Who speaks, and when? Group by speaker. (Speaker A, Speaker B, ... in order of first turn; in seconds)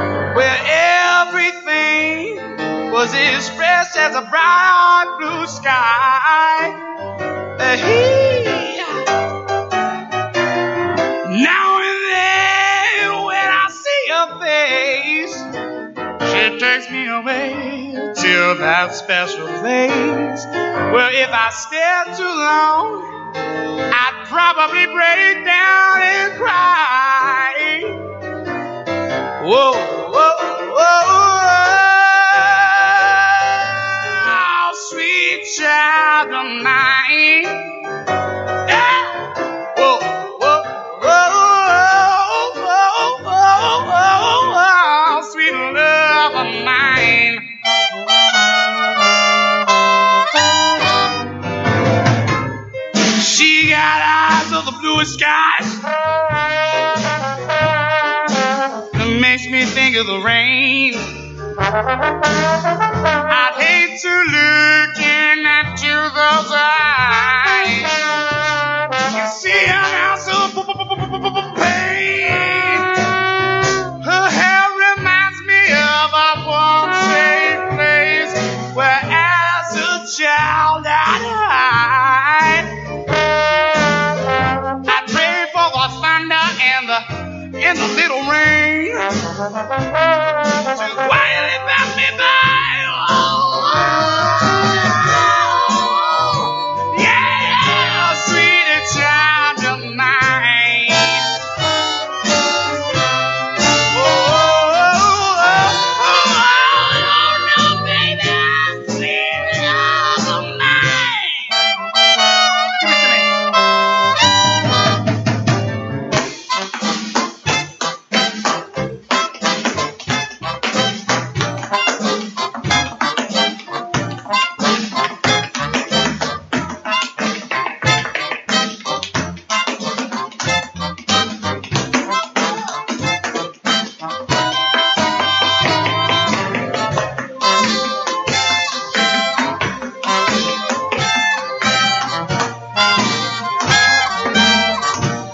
Speaker A: 0.3-6.7, 7.6-8.9, 11.2-15.4, 16.2-23.1, 23.9-28.0, 29.4-37.8, 38.7-47.4, 53.2-55.8, 58.9-61.3, 63.3-68.0, 69.1-73.0, 74.0-82.7, 84.9-89.0, 90.7-101.2, 103.9-111.5, 112.8-113.3